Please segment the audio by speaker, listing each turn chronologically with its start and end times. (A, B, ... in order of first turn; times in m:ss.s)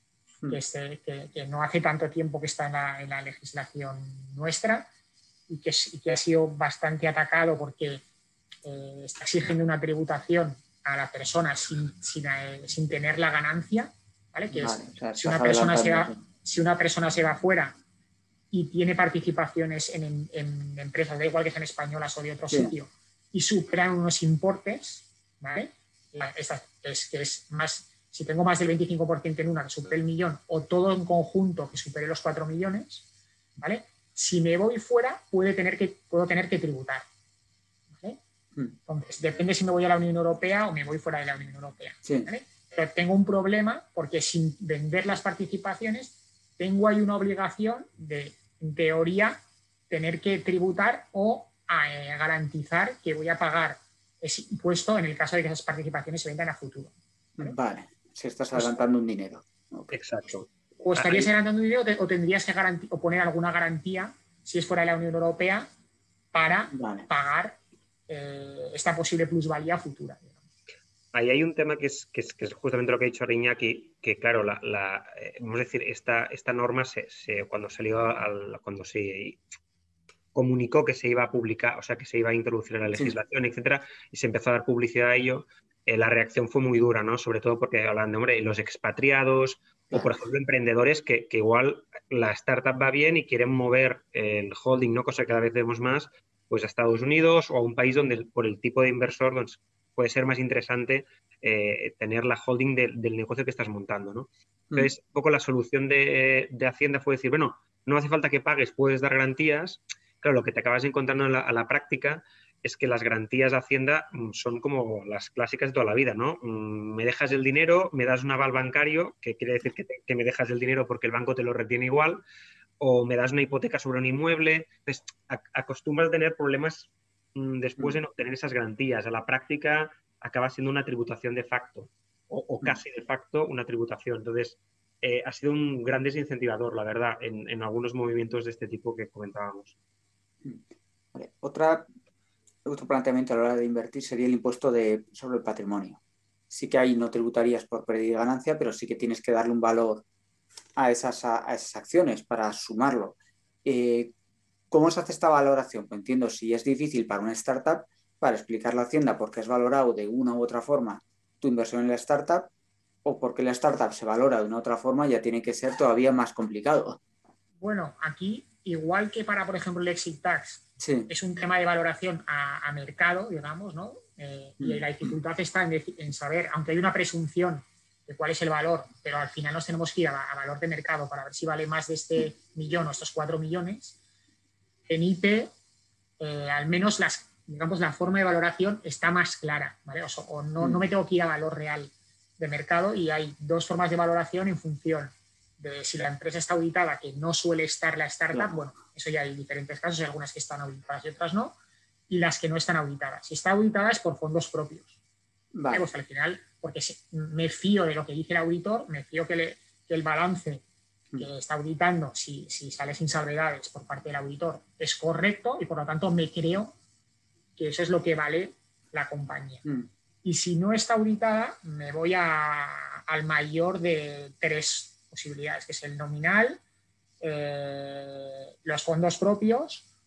0:00.5-0:04.9 A
0:05.5-0:08.0 A
0:08.6-0:17.8 A
0:14.5-0:16.2 B
0:18.5-0:33.0 A
0:22.5-0:22.8 B
0:33.6-0:37.1 A
0:37.9-0:38.2 A
0:38.9-0:57.6 A
0:42.0-0:42.3 B
0:57.4-1:00.0 B
0:59.9-1:01.3 C
1:00.8-1:05.7 A
1:06.3-1:07.6 A
1:06.7-1:07.1 B
1:08.1-1:10.4 A
1:11.1-1:19.4 C
1:20.3-2:02.2 C
1:22.9-1:23.2 B
2:02.8-2:19.8 C
2:21.1-2:21.9 B
2:22.7-2:26.0 B
2:26.5-2:30.0 B
2:30.8-2:34.1 B
2:34.7-2:42.5 B
2:43.0-2:47.0 B
2:47.6-3:04.0 A
2:50.8-2:51.1 B
2:54.6-2:55.1 B
3:04.9-3:05.5 A
3:06.2-3:21.6 A
3:22.1-3:25.0 A
3:25.5-3:25.9 B
3:25.7-3:30.6 A
3:31.2-3:36.8 A
3:37.6-3:39.6 A
3:40.2-3:46.6 A
3:47.2-3:49.8 A